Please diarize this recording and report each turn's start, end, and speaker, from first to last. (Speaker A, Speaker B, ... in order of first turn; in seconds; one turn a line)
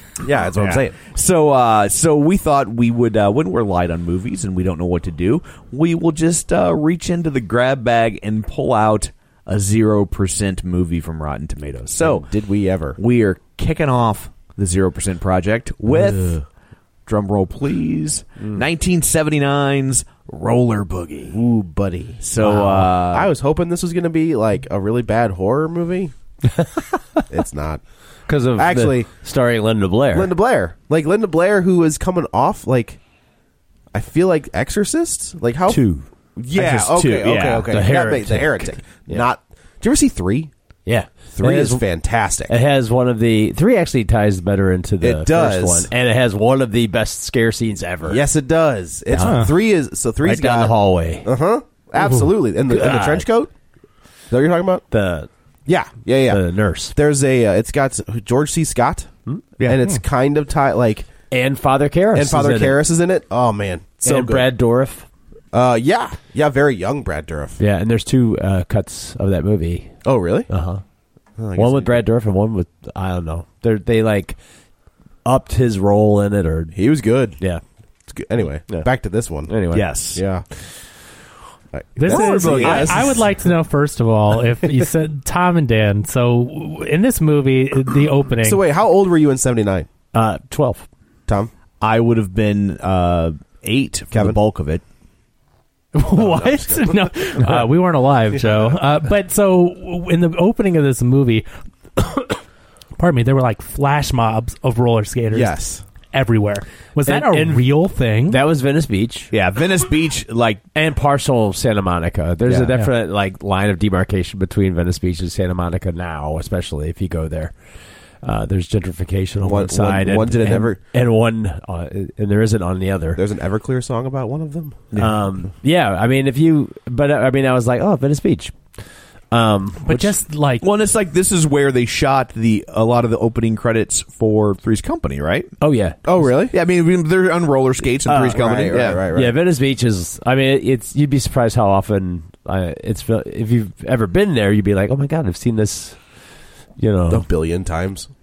Speaker A: 0.2-1.0
Speaker B: 0.6-12.3
Speaker A: 12.0-13.0
Speaker B: 13.0-16.4
Speaker A: 15.9-16.4
Speaker B: 17.1-21.4
Speaker A: 21.3-22.2
Speaker B: 22.2-23.3
Speaker C: 22.4-22.9
Speaker A: 23.0-26.1
Speaker A: 27.3-27.8
Speaker C: 28.3-30.3
Speaker A: 28.6-29.1
Speaker A: 30.1-33.0
Speaker A: 33.9-35.8
Speaker C: 35.7-36.1
Speaker A: 36.4-40.5
Speaker B: 36.5-37.8
Speaker C: 37.7-39.2
Speaker C: 40.9-41.8
Speaker A: 41.3-42.5
Speaker C: 42.5-48.2
Speaker A: 45.0-45.9
Speaker A: 48.1-53.5
Speaker C: 49.1-49.5
Speaker D: 49.2-49.5
Speaker C: 50.2-51.3
Speaker C: 52.7-53.3
Speaker A: 54.3-54.9
Speaker C: 54.9-55.3
Speaker A: 55.6-59.1
Speaker C: 56.3-56.9
Speaker B: 59.6-59.9
Speaker A: 59.6-61.1
Speaker C: 61.3-62.8
Speaker A: 62.1-64.5
Speaker C: 64.0-65.1
Speaker A: 65.5-67.6
Speaker C: 67.6-70.0
Speaker A: 70.0-70.5
Speaker C: 70.5-70.8
Speaker A: 71.4-72.0
Speaker C: 71.5-74.4
Speaker C: 75.2-76.7
Speaker A: 76.7-77.4
Speaker A: 78.1-79.6
Speaker C: 79.5-79.9
Speaker B: 79.7-80.2
Speaker A: 80.1-80.5
Speaker A: 81.7-83.2
Speaker D: 82.0-88.6
Speaker B: 82.1-83.1
Speaker A: 88.4-89.9
Speaker C: 90.1-90.9
Speaker B: 91.8-94.8
Speaker A: 94.1-94.4
Speaker D: 96.0-102.4
Speaker A: 96.1-97.4
Speaker D: 103.0-105.6
Speaker A: 105.3-105.8
Speaker D: 106.1-108.4
Speaker C: 107.1-107.7
Speaker C: 108.3-109.3
Speaker B: 109.3-110.6
Speaker C: 110.8-117.5
Speaker C: 118.2-123.2
Speaker A: 119.4-120.8
Speaker A: 123.2-124.9
Speaker B: 124.9-125.2
Speaker C: 125.0-128.7
Speaker C: 129.3-130.1
Speaker D: 129.8-130.6
Speaker B: 130.6-135.5
Speaker C: 135.6-136.0
Speaker A: 136.1-136.6
Speaker B: 136.5-139.1
Speaker C: 138.1-138.6
Speaker A: 138.2-139.4
Speaker C: 139.1-146.0
Speaker C: 146.8-147.2
Speaker A: 147.1-148.1